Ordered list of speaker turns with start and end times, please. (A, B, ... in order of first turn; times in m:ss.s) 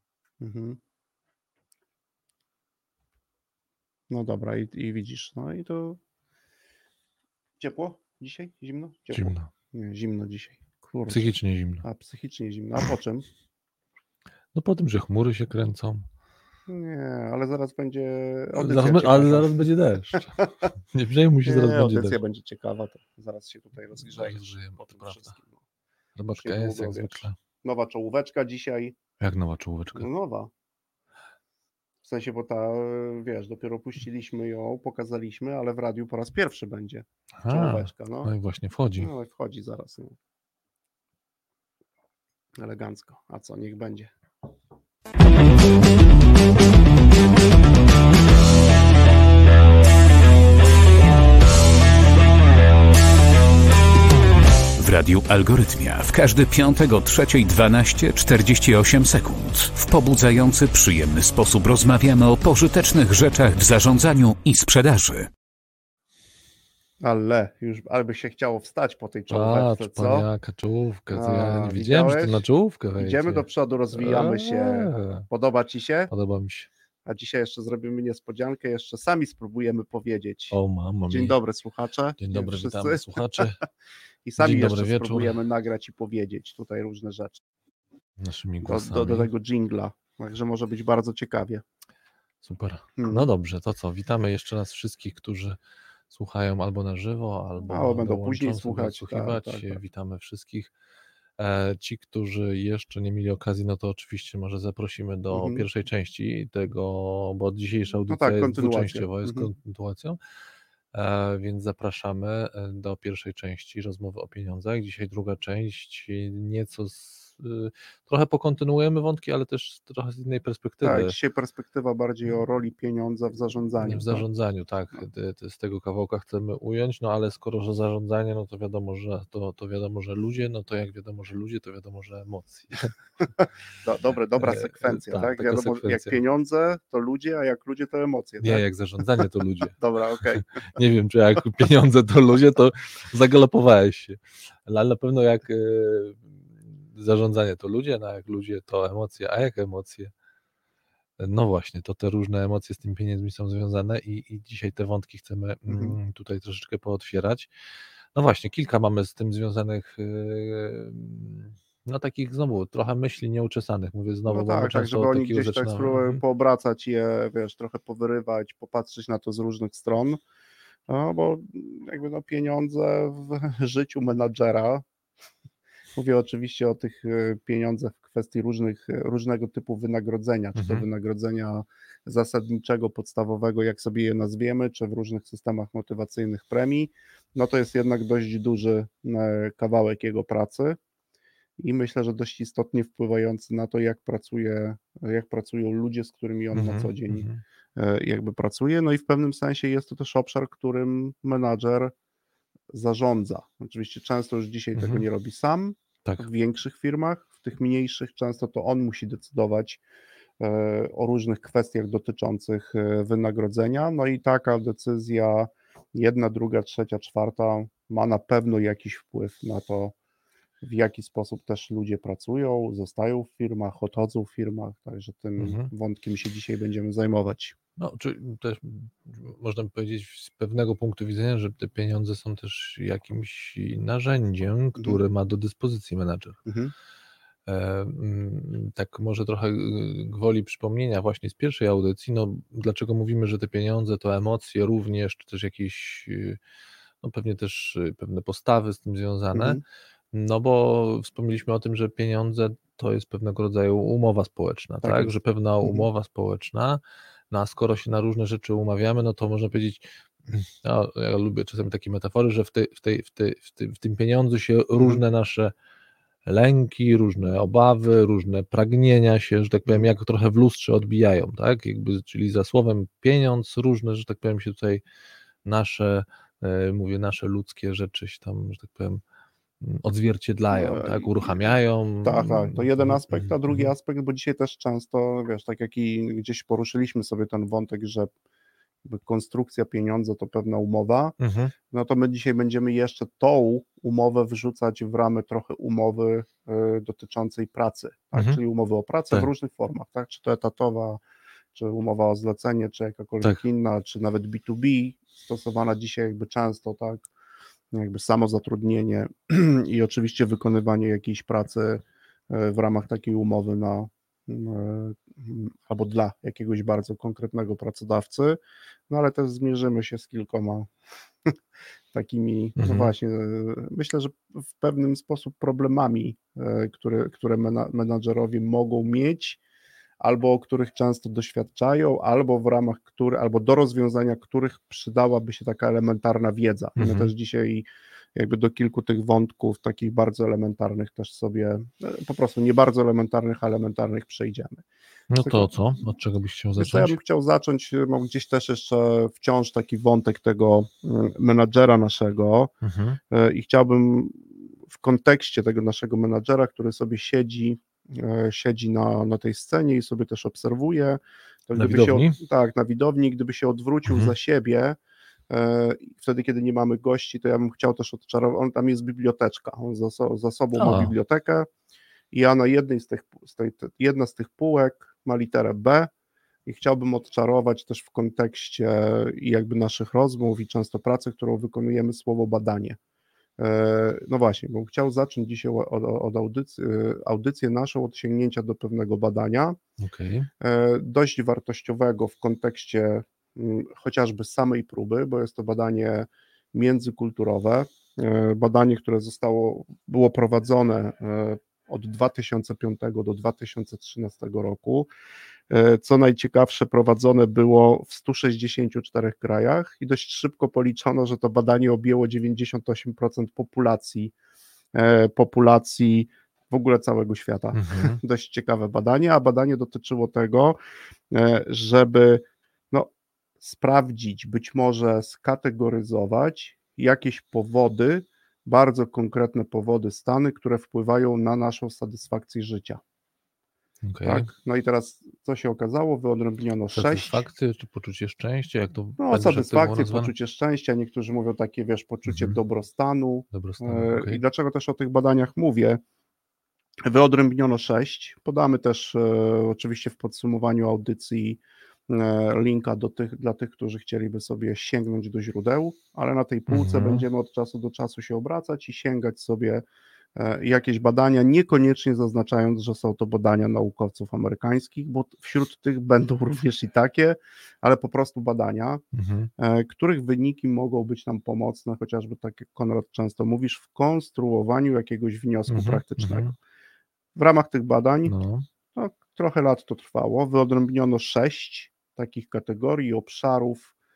0:00.4-0:00.8 A
0:04.1-0:06.0 A
0:07.6-0:11.3 A
0:09.1-0:09.5 B
0:11.1-0:11.8 B
0:11.8-0:13.3 A
0:14.5-0:16.1 B
0:16.7-0:20.7 A
0:18.6-0:20.3 B
0:20.9-0:22.2 B
0:21.4-0:25.6 A
0:24.0-0:25.3 B
0:26.2-0:27.4 B
0:26.3-0:29.0 A
0:29.2-0:30.1 B
0:29.9-0:30.5 A
0:32.0-0:38.3 A
0:37.4-0:39.1 B
0:39.0-0:40.2 A
0:42.6-0:44.1 A
0:54.8-1:05.3 C
1:07.0-1:10.3 A
1:09.3-1:15.2 B
1:11.1-1:12.4 A
1:13.0-1:16.1 A
1:16.1-1:16.7 B
1:17.0-1:20.6 A
1:20.5-1:21.4 B
1:21.1-1:23.6 A
1:22.2-1:23.6 B
1:24.2-1:27.4 A
1:24.4-1:25.4 B
1:28.2-1:29.3 B
1:28.6-1:31.6 A
1:32.4-1:35.6 B
1:33.0-1:33.3 A
1:36.1-1:40.7 B
1:37.7-1:39.8 A
1:41.4-1:50.2 B
1:45.3-1:45.6 A
1:48.1-1:49.5 A
1:50.9-2:01.1 B
2:00.8-2:04.2 A
2:03.8-2:12.9 B
2:13.4-2:18.6 A
2:14.4-2:16.2 B
2:18.4-2:19.7 B
2:19.7-2:20.4 A
2:20.3-2:30.1 B
2:31.2-2:37.5 B
2:35.7-2:36.0 A
2:38.1-2:46.2 B
2:44.3-2:50.2 A
2:50.9-2:54.8 A
2:55.9-3:10.8 A
3:00.6-3:00.8 B
3:11.6-3:21.9 A
3:16.5-3:17.4 B
3:22.7-3:29.8 A
3:24.7-3:25.0 B
3:30.4-3:39.9 A
3:40.6-3:47.6 A
3:45.4-3:45.7 B
3:47.8-3:56.4 B
3:56.4-3:56.7 A
3:57.5-4:06.4 B
4:07.0-4:25.5 B
4:09.3-4:09.6 A
4:14.8-4:15.9 A
4:26.2-4:34.8 B
4:35.4-4:39.0 B
4:39.6-4:43.7 B
4:40.5-4:41.5 A
4:42.0-4:48.1 A
4:48.8-4:51.2 A
4:51.2-4:51.5 B
4:51.7-5:01.0 A
4:58.1-4:58.4 B
5:01.5-5:07.1 A
5:07.7-5:20.7 A
5:21.9-5:29.4 A
5:22.6-5:22.9 B
5:30.0-5:44.6 A
5:36.8-5:37.1 B
5:45.1-5:47.0 B
5:45.2-5:45.5 A
5:46.6-5:52.5 A
5:52.6-5:53.0 B
5:53.1-6:04.8 A
6:01.5-6:02.2 B
6:03.8-6:04.1 B
6:05.3-6:11.5 A
6:10.6-6:10.9 B
6:12.1-6:15.9 A
6:16.4-6:22.8 A
6:23.4-6:29.6 A
6:29.8-6:30.3 B
6:30.4-6:44.9 A
6:45.5-6:54.1 A
6:54.7-7:00.6 A
6:57.5-6:58.0 B
7:01.1-7:02.9 A
7:03.4-7:12.8 A
7:13.8-7:14.3 B
7:14.0-7:17.2 A
7:16.7-7:20.1 B
7:19.0-7:25.8 A
7:22.1-7:22.4 B
7:23.3-7:24.2 B
7:26.8-7:39.6 A
7:36.5-7:37.0 B
7:40.2-7:48.8 A
7:48.9-7:49.3 B
7:49.4-7:56.4 A
7:55.5-7:56.3 B
7:57.1-7:58.1 A
7:58.1-7:58.4 B
7:58.7-8:03.7 A